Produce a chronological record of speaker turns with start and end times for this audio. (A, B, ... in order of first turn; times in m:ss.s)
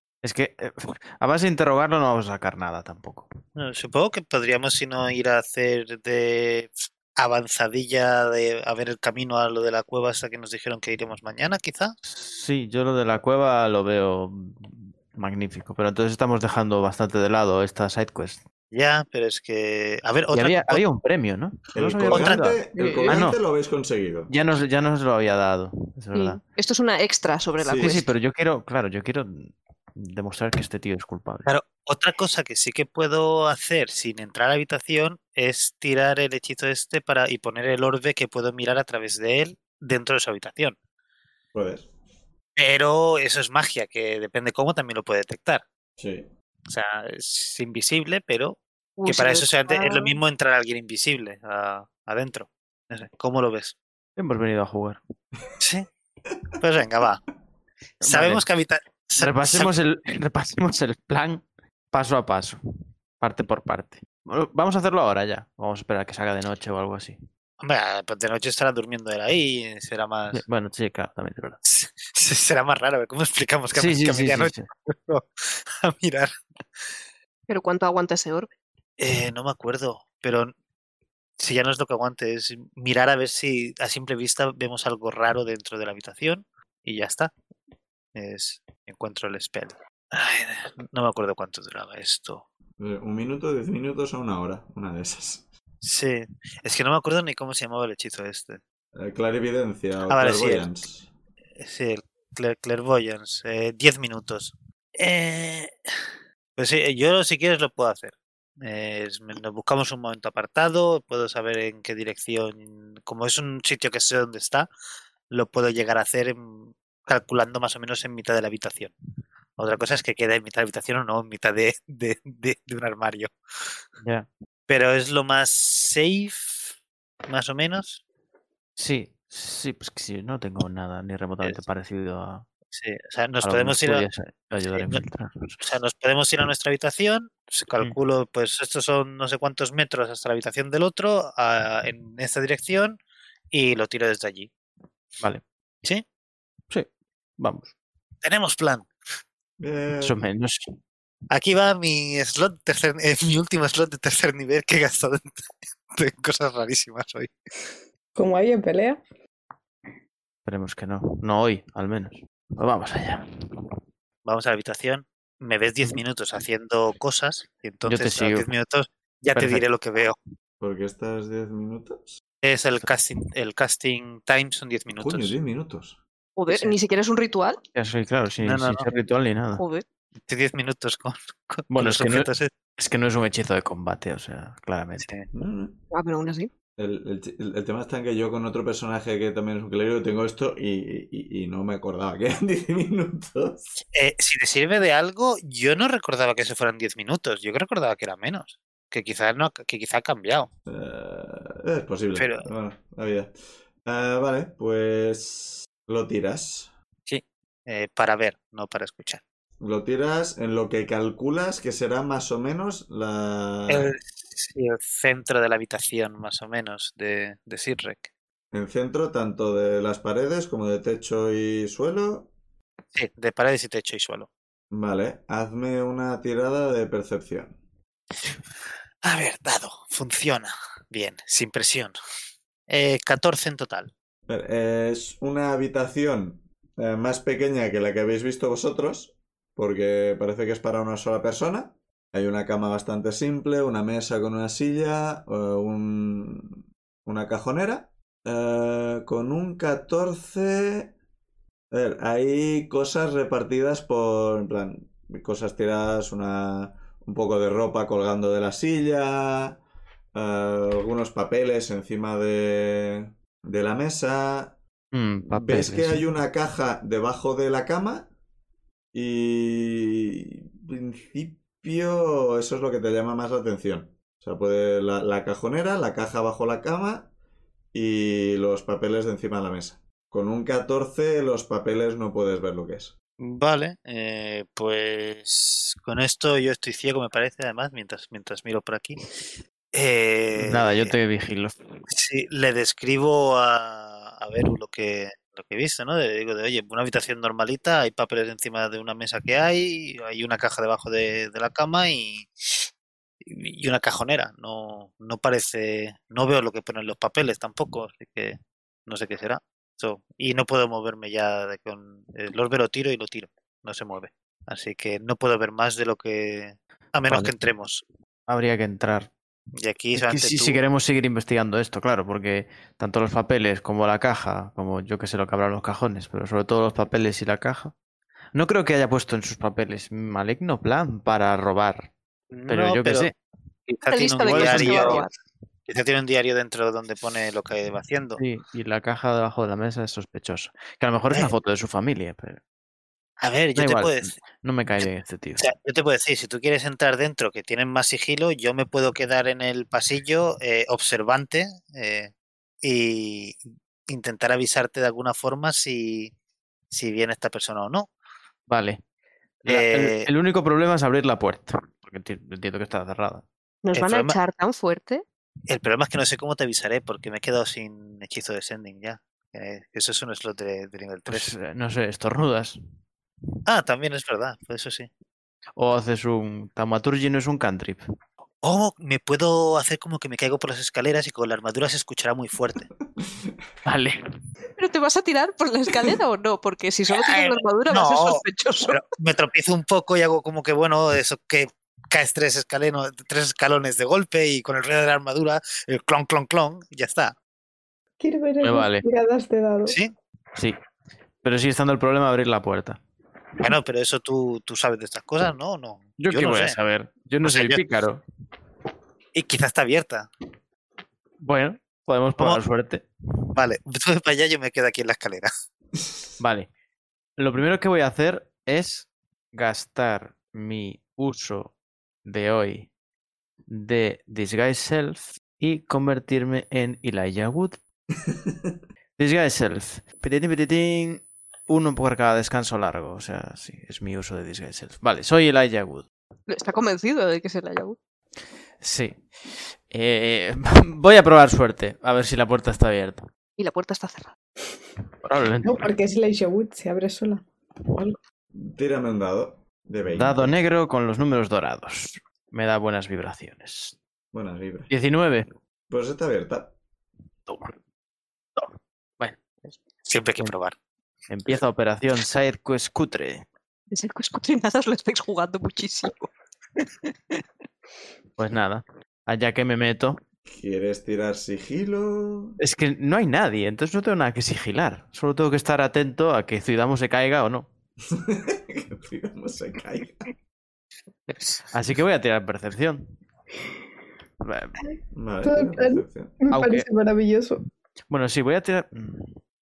0:00.2-0:03.3 A
0:03.6-0:12.0 B
0:12.0-0:18.4 A
0:18.7-0:20.8 B
0:20.3-0:23.4 A
0:21.8-0:24.3 C
0:22.0-0:22.5 B
0:22.8-0:23.2 D
0:24.3-0:26.4 A
0:26.1-0:28.1 D
0:27.6-0:28.0 C
0:27.8-0:31.5 A
0:31.5-0:40.8 B
0:41.5-0:41.9 C
0:42.6-0:45.6 B
0:46.0-0:46.3 C
0:46.7-0:53.8 B
0:49.0-0:50.2 D
0:54.2-0:55.0 A
0:55.6-0:55.9 B
0:56.6-0:57.2 B
0:58.0-0:58.4 A
0:58.0-0:59.7 B
0:59.2-1:02.6 A
1:03.2-1:07.2 A
1:07.6-1:10.4 B
1:10.3-1:11.6 A
1:11.6-1:16.8 B
1:13.7-1:14.7 A
1:17.5-1:18.5 D
1:19.0-1:20.5 B
1:21.4-1:27.3 B
1:28.2-1:32.4 B
1:32.8-1:35.5 C
1:35.8-1:38.6 B
1:39.0-1:41.1 C
1:40.1-1:40.7 B
1:41.6-1:45.7 B
1:46.6-1:54.7 B
1:55.3-1:58.9 B
1:59.6-2:03.3 B
2:04.0-2:04.3 A
2:04.7-2:06.7 B
2:07.3-2:08.0 B
2:08.8-2:12.4 A
2:12.7-2:14.1 B
2:13.4-2:15.6 A
2:14.7-2:15.0 B
2:15.6-2:23.0 B
2:23.5-2:24.5 B
2:26.7-2:27.7 A
2:28.2-2:28.9 B
2:29.6-2:30.2 C
2:30.0-2:30.7 A
2:31.3-2:37.3 B
2:38.2-2:39.0 E
2:40.4-2:43.7 A
2:44.2-2:50.2 B
2:47.8-2:48.5 A
2:49.3-2:49.6 A
2:50.6-2:52.2 C
2:52.4-2:55.3 B
2:55.0-2:56.0 C
2:56.4-2:57.6 D
2:56.5-2:56.8 B
2:57.7-2:59.6 A
2:58.4-2:58.9 B
2:59.6-2:59.8 D
3:00.2-3:02.5 B
3:01.7-3:05.1 A
3:05.0-3:05.3 B
3:05.3-3:05.8 C
3:05.9-3:06.5 D
3:06.8-3:13.8 C
3:13.9-3:20.5 B
3:20.7-3:23.3 C
3:22.2-3:22.5 B
3:23.8-3:26.7 C
3:27.1-3:29.2 B
3:29.6-3:33.9 C
3:33.7-3:38.1 B
3:38.5-3:42.3 C
3:42.9-3:44.3 B
3:44.7-3:47.6 C
3:49.0-3:52.0 B
3:52.7-3:53.9 B
3:54.3-4:10.9 C
4:11.7-4:19.6 C
4:20.1-4:24.6 C
4:24.9-4:26.0 A
4:25.3-4:28.1 C
4:28.9-4:37.1 C
4:37.7-4:42.9 C
4:43.2-4:49.1 B
4:49.7-4:51.0 B
4:50.4-4:51.6 A
4:51.9-5:02.3 B
5:03.2-5:17.8 B
5:17.1-5:17.3 A
5:18.3-5:19.1 A
5:19.6-5:20.6 B
5:20.0-5:27.7 A
5:28.3-5:31.9 A
5:32.3-5:33.1 B
5:32.5-5:33.2 A
5:33.7-5:35.1 A
5:33.7-5:35.1 B
5:33.9-5:35.1 D
5:35.7-5:38.2 B
5:38.2-5:42.4 A
5:43.2-5:44.2 B
5:43.6-5:45.5 A
5:45.4-5:52.1 B
5:52.6-5:56.1 B
5:56.7-5:57.9 B
5:58.5-5:58.8 A
5:59.4-6:03.3 A
5:59.5-6:00.1 B
6:03.6-6:05.0 D
6:03.7-6:04.2 B
6:05.5-6:11.3 B
6:11.1-6:12.6 A
6:13.5-6:14.9 B
6:15.6-6:17.8 A
6:18.4-6:22.7 B
6:23.0-6:23.4 C
6:23.7-6:24.0 A
6:24.6-6:28.8 D
6:26.9-6:37.2 B
6:38.0-6:39.8 E
6:38.4-6:38.8 A
6:39.7-6:39.9 B
6:41.2-6:42.8 A
6:43.4-6:46.6 B
6:46.0-6:48.0 A
6:47.2-6:47.6 B
6:49.1-6:50.1 B
6:51.2-6:53.3 A
6:53.4-6:55.3 B
6:56.2-6:56.5 A
6:57.2-7:02.7 A
7:03.5-7:07.6 A
7:08.0-7:08.6 C
7:09.0-7:15.9 A
7:16.3-7:17.8 D
7:18.6-7:23.0 A
7:23.4-7:24.1 D
7:25.0-7:25.7 A
7:25.4-7:28.0 E
7:28.3-7:30.3 C
7:29.9-7:33.8 A
7:34.1-7:34.7 C
7:34.7-7:35.3 A
7:35.7-7:36.5 C
7:37.3-7:37.6 A
7:38.4-7:39.4 A
7:39.9-7:40.6 B
7:41.1-7:43.2 A
7:43.7-7:46.1 D
7:48.2-7:50.0 A
7:50.3-7:52.4 C
7:52.4-7:57.5 A
7:57.9-8:00.1 C
8:01.5-8:02.9 A
8:04.2-8:04.6 A
8:04.9-8:06.2 C
8:05.2-8:07.4 E
8:06.3-8:06.7 A
8:07.9-8:09.2 A